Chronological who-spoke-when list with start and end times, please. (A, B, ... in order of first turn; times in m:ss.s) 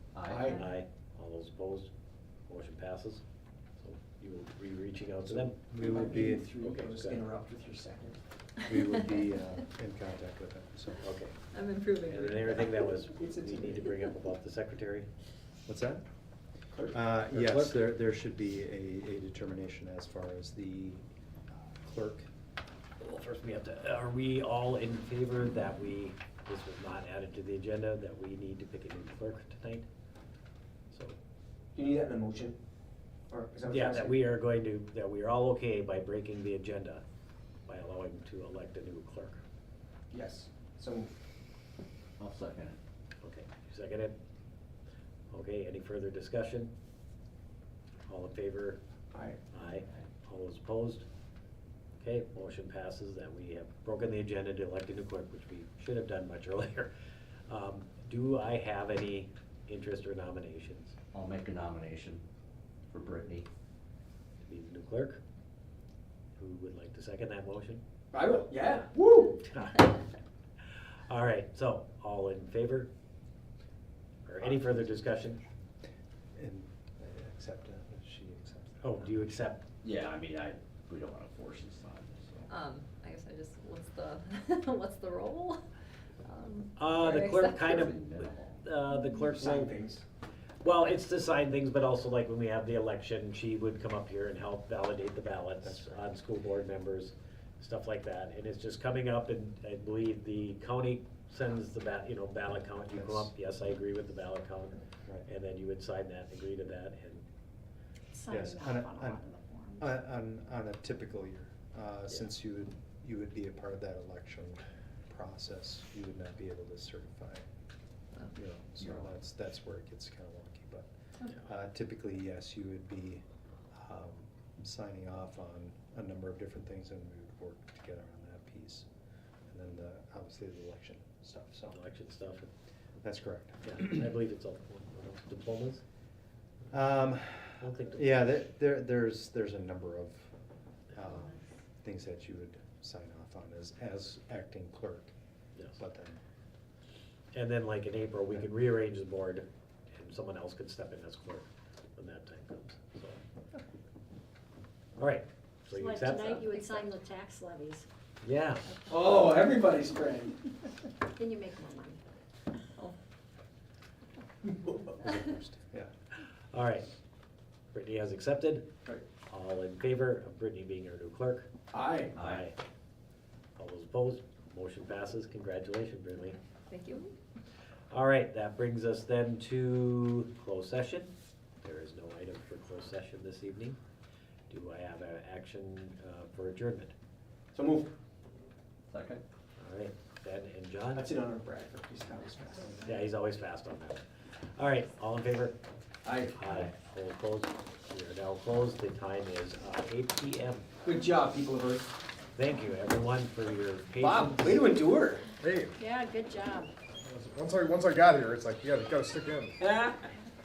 0:00.1-0:00.5 A
0:00.3-0:00.6 B
0:00.4-0:01.9 C
0:02.5-0:03.2 C
0:03.8-0:05.6 C
0:05.3-0:06.5 D
0:05.8-0:08.2 B
0:06.6-0:07.2 C
0:08.6-0:11.1 D
0:11.0-0:11.4 C
0:11.5-0:12.9 E
0:12.0-0:15.1 C
0:13.1-0:13.9 B
0:15.7-0:16.1 D
0:16.7-0:17.0 B
0:16.9-0:21.0 D
0:17.3-0:17.8 C
0:21.8-0:22.3 D
0:23.0-0:29.9 C
0:30.9-0:31.2 C
0:31.8-0:32.6 B
0:33.3-0:34.2 B
0:33.7-0:37.0 C
0:37.7-0:39.4 C
0:40.1-0:41.1 B
0:42.2-0:42.8 A
0:43.2-0:44.2 C
0:45.3-0:46.7 C
0:48.1-0:48.8 C
0:49.1-0:49.4 B
0:49.5-0:51.0 C
0:52.0-0:56.9 C
0:57.5-1:01.0 C
1:01.1-1:02.2 A
1:02.9-1:03.5 A
1:04.4-1:05.2 C
1:06.4-1:07.8 C
1:08.1-1:09.4 B
1:09.5-1:10.0 C
1:11.1-1:12.9 C
1:14.3-1:15.4 C
1:14.4-1:14.8 D
1:16.4-1:19.3 D
1:18.8-1:19.6 C
1:19.8-1:22.5 A
1:22.5-1:25.6 E
1:26.2-1:28.0 E
1:26.8-1:29.7 C
1:27.7-1:28.6 A
1:29.4-1:30.0 B
1:30.6-1:47.2 C
1:35.6-1:36.0 D
1:42.9-1:43.3 D
1:48.1-1:49.9 F
1:48.3-1:49.2 D
1:49.8-1:57.5 D
1:58.3-2:03.2 D
2:03.8-2:08.9 D
2:09.5-2:11.8 D
2:11.7-2:12.5 C
2:13.0-2:13.8 D
2:13.6-2:15.8 C
2:16.7-2:20.3 D
2:17.6-2:18.2 C
2:20.9-2:25.1 D
2:25.8-2:26.2 D
2:27.3-2:33.2 C
2:35.0-2:36.8 C
2:35.7-2:37.8 F
2:38.2-2:38.7 C
2:38.9-2:40.5 B
2:41.1-2:42.0 F
2:44.4-2:45.1 B
2:45.0-2:45.9 D
2:46.5-2:46.9 C
2:47.7-2:48.7 C
2:49.3-2:51.5 C
2:51.7-2:52.2 B
2:52.2-2:52.6 C
2:52.2-2:52.5 A
2:53.6-2:56.4 C
2:56.7-2:57.2 E
2:57.9-3:03.8 C
3:04.5-3:06.9 C
3:07.5-3:07.9 B
3:08.9-3:09.2 A
3:09.6-3:11.1 C
3:10.9-3:12.8 B
3:12.8-3:15.6 C
3:16.0-3:16.7 B
3:16.4-3:20.7 C
3:20.8-3:22.0 B
3:22.4-3:24.6 C
3:24.0-3:25.3 B
3:25.4-3:25.7 G
3:25.8-3:26.7 F
3:27.0-3:29.6 G
3:29.6-3:30.1 B